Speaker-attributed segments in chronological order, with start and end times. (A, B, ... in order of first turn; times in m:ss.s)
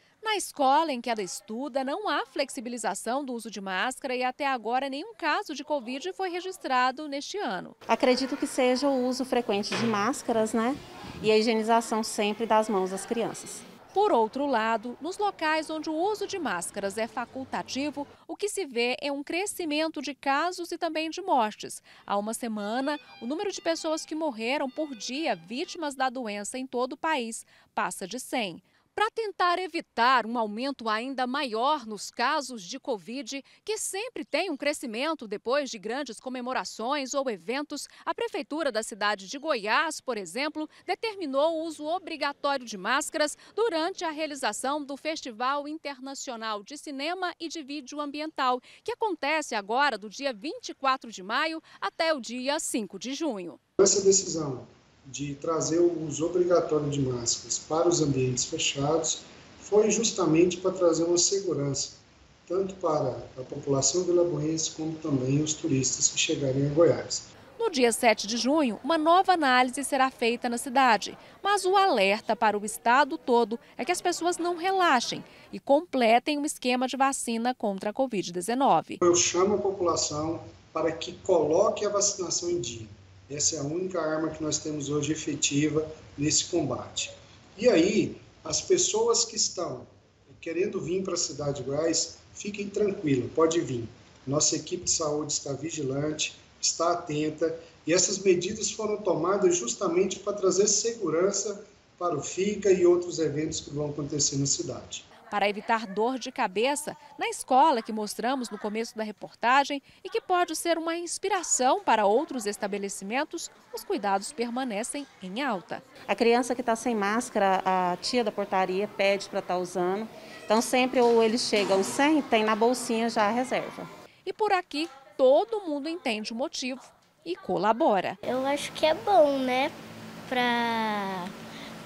0:00.2-0:07.7 A
0:07.9-0:13.6 B
0:13.9-0:53.6 A
0:53.8-1:07.3 C
1:07.6-1:19.0 A
1:19.0-1:45.0 C
1:45.3-1:55.8 A
1:56.1-2:03.9 B
2:04.2-2:08.2 A
2:08.2-2:09.7 D
2:10.3-2:11.3 D